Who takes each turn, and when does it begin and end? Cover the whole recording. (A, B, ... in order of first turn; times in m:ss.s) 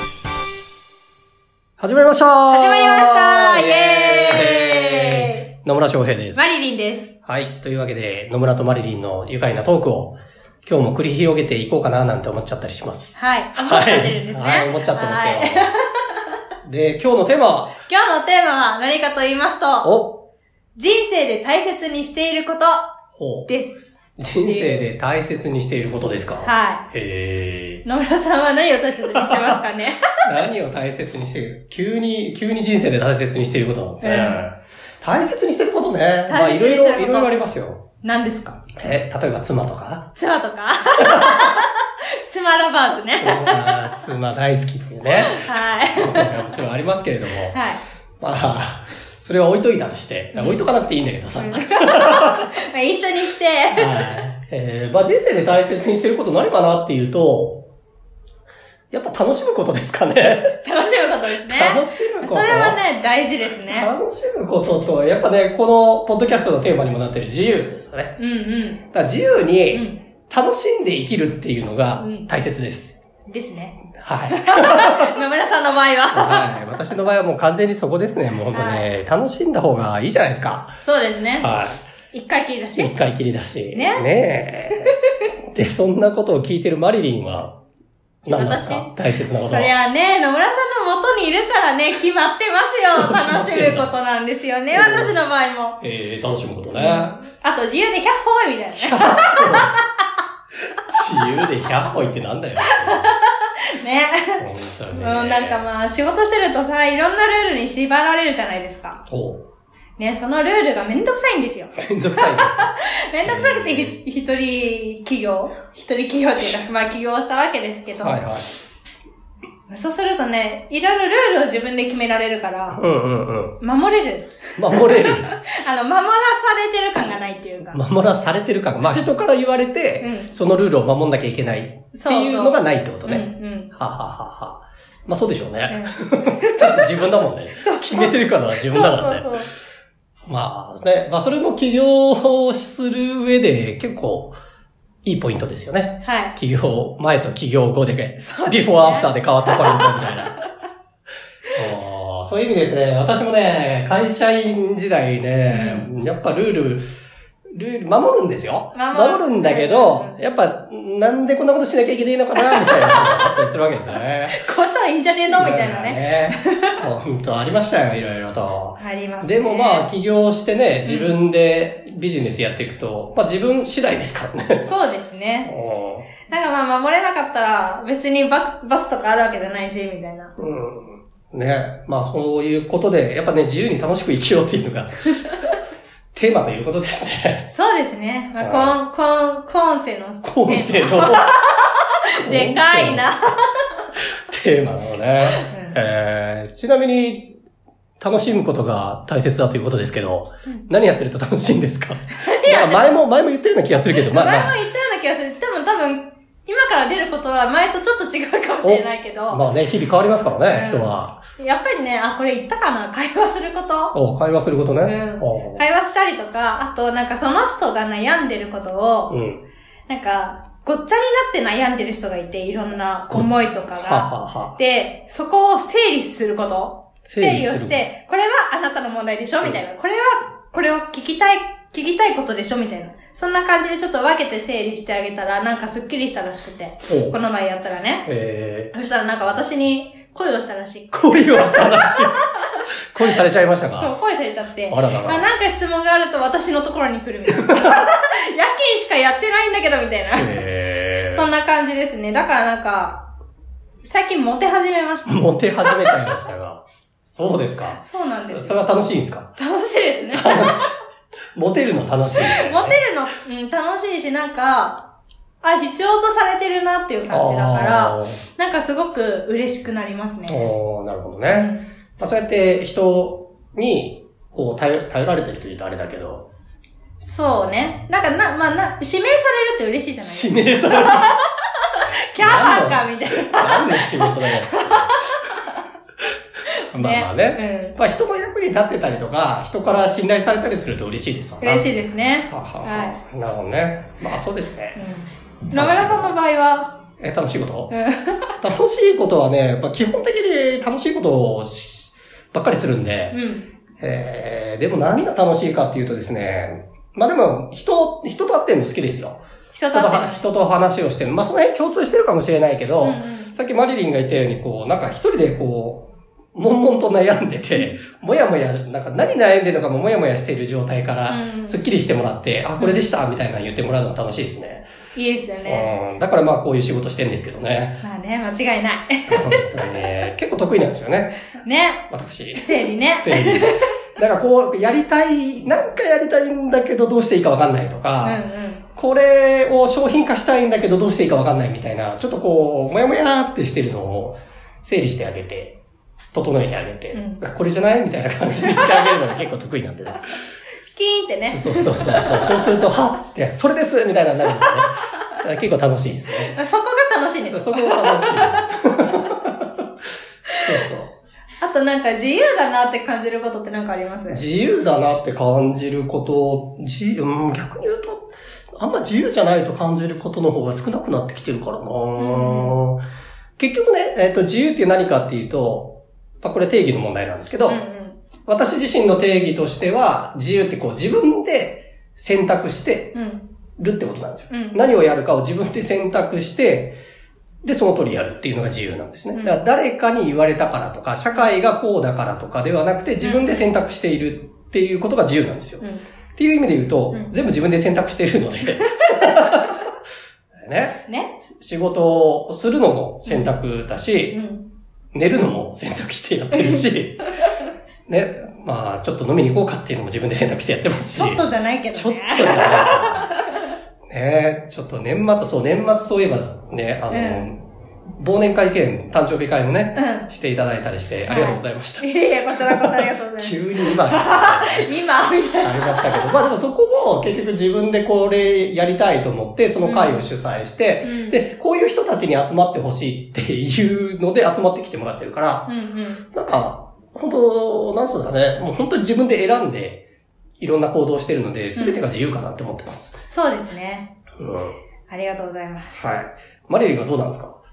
0:01.8-0:06.5 A
0:02.5-0:05.5 B
0:06.3-0:07.1 B
0:07.2-0:15.7 A
0:13.2-0:16.2 B
0:16.6-0:17.8 A
0:17.9-0:19.9 B
0:19.8-0:20.2 A
0:20.8-0:23.0 B
0:23.2-0:23.5 A
0:23.5-0:23.8 B
0:24.2-0:27.8 A
0:24.4-0:24.9 B
0:26.4-0:26.8 B
0:27.8-0:30.2 B
0:30.2-0:37.8 A
0:34.0-0:34.4 B
0:36.3-0:37.3 B
0:38.0-0:38.7 B
0:38.8-0:40.1 A
0:40.2-0:43.9 B
0:43.2-0:45.4 A
0:45.2-0:46.4 B
0:45.9-0:47.6 A
0:47.5-0:47.8 B
0:48.2-0:52.5 A
0:50.3-0:50.6 B
0:51.4-0:54.2 B
0:53.8-0:57.6 A
0:58.9-1:00.6 A
1:00.6-1:03.9 B
1:01.5-1:02.8 A
1:03.7-1:08.2 A
1:08.2-1:08.8 B
1:08.9-1:12.9 A
1:09.7-1:10.0 B
1:12.0-1:12.3 B
1:13.3-1:16.5 B
1:14.0-1:15.1 A
1:16.1-1:20.8 A
1:18.5-1:18.9 B
1:20.8-1:21.5 B
1:21.4-1:21.8 A
1:22.1-1:23.0 B
1:22.8-1:24.9 A
1:23.7-1:24.1 B
1:25.5-1:27.6 A
1:28.2-1:29.7 A
1:28.3-1:35.8 B
1:32.9-1:33.9 A
1:34.7-1:35.2 A
1:35.8-1:37.2 A
1:36.7-1:39.7 B
1:38.8-1:39.8 A
1:40.8-1:43.1 A
1:42.6-1:49.0 B
1:44.4-1:45.7 A
1:49.1-1:49.4 A
1:50.0-1:58.2 B
1:51.8-1:52.7 A
1:53.2-1:54.0 A
1:58.0-1:58.5 A
1:59.7-2:02.8 B
2:02.7-2:03.6 A
2:03.6-2:07.8 B
2:04.6-2:05.3 A
2:07.7-2:19.3 A
2:10.0-2:10.3 B
2:11.9-2:13.7 B
2:15.7-2:16.9 B
2:17.6-2:19.5 B
2:20.3-2:24.4 A
2:25.0-2:30.4 A
2:26.0-2:26.4 B
2:28.2-2:30.1 B
2:31.5-2:36.8 A
2:35.5-2:35.9 B
2:37.5-2:44.4 A
2:38.7-2:40.2 B
2:42.4-2:43.3 B
2:44.3-2:46.8 B
2:45.3-2:54.7 A
2:48.8-2:49.9 B
2:50.8-2:51.1 B
2:54.6-2:55.5 B
2:55.4-2:56.1 A
2:56.3-3:00.3 B
3:00.4-3:05.2 A
3:06.1-3:07.5 A
3:07.5-3:13.5 B
3:08.4-3:08.8 A
3:10.2-3:11.4 A
3:12.2-3:13.1 A
3:14.3-3:17.3 A
3:15.4-3:15.8 B
3:18.0-3:24.5 A
3:22.2-3:22.9 B
3:23.9-3:29.4 B
3:28.6-3:31.2 A
3:30.5-3:34.0 B
3:33.9-3:35.6 A
3:34.8-3:39.1 B
3:39.1-3:39.4 A
3:39.9-3:58.1 B
3:43.1-3:44.6 A
3:47.0-3:47.8 A
3:56.9-3:57.2 A
3:58.1-3:58.7 A
3:58.7-4:02.4 B
4:00.9-4:03.9 A
4:03.7-4:10.3 B
4:04.7-4:05.3 A
4:10.1-4:11.2 A
4:11.1-4:13.1 B
4:13.8-4:16.1 B
4:15.1-4:19.3 A
4:17.8-4:18.6 B
4:19.4-4:20.7 B
4:20.1-4:20.7 A
4:21.4-4:22.8 A
4:22.2-4:24.9 B
4:25.4-4:30.5 B
4:27.1-4:28.2 A
4:30.3-4:36.3 A
4:31.3-4:31.7 B
4:37.0-4:45.6 B
4:40.0-4:41.1 A
4:42.2-4:45.0 A
4:46.7-4:51.7 A
4:46.7-4:47.8 B
4:51.4-4:53.0 B
4:52.3-4:54.8 A
4:54.8-4:56.8 B
4:55.5-4:56.2 A
4:57.0-4:57.7 A
4:57.7-4:58.3 B
4:58.4-5:03.2 A
5:03.1-5:03.5 B
5:03.8-5:24.7 A
5:09.5-5:10.3 B
5:12.8-5:13.3 B
5:21.1-5:21.6 B
5:22.6-5:22.9 B
5:24.9-5:25.8 B
5:25.4-5:27.8 A
5:27.8-5:29.8 B
5:29.1-5:31.2 A
5:31.4-5:33.7 B
5:31.9-5:38.2 A
5:38.0-5:38.7 B
5:38.8-5:45.6 A
5:46.1-5:50.2 A
5:46.9-5:47.2 B
5:50.7-5:52.6 B
5:51.3-5:56.4 A
5:56.2-5:58.5 B
5:57.3-5:59.5 A
6:00.4-6:00.9 A
6:01.4-6:04.2 B
6:04.1-6:12.8 A
6:12.0-6:12.6 B
6:13.4-6:17.6 A
6:17.5-6:18.0 B
6:18.2-6:23.0 A
6:22.9-6:23.3 B
6:23.6-6:26.8 A
6:24.3-6:24.6 B
6:27.4-6:39.6 A
6:29.1-6:29.4 B
6:33.0-6:33.5 B
6:35.6-6:35.9 B
6:40.4-6:40.8 A
6:40.9-6:41.2 B
6:41.4-6:44.2 A
6:43.1-6:43.3 B
6:44.1-6:44.5 B
6:44.9-6:47.1 A
6:47.9-6:53.1 A
6:50.8-6:53.1 B
6:53.9-6:57.4 A
6:56.9-6:57.3 B
6:58.0-7:04.7 A
6:59.8-7:00.1 B
7:01.1-7:06.2 B
7:05.4-7:15.5 A
7:09.6-7:10.1 B
7:10.8-7:11.2 B
7:15.5-7:16.0 B
7:16.1-7:19.8 A
7:20.4-7:23.0 A
7:21.6-7:21.8 B
7:23.1-7:23.9 B
7:24.2-7:24.6 A
7:24.9-7:25.7 B
7:25.7-7:27.4 A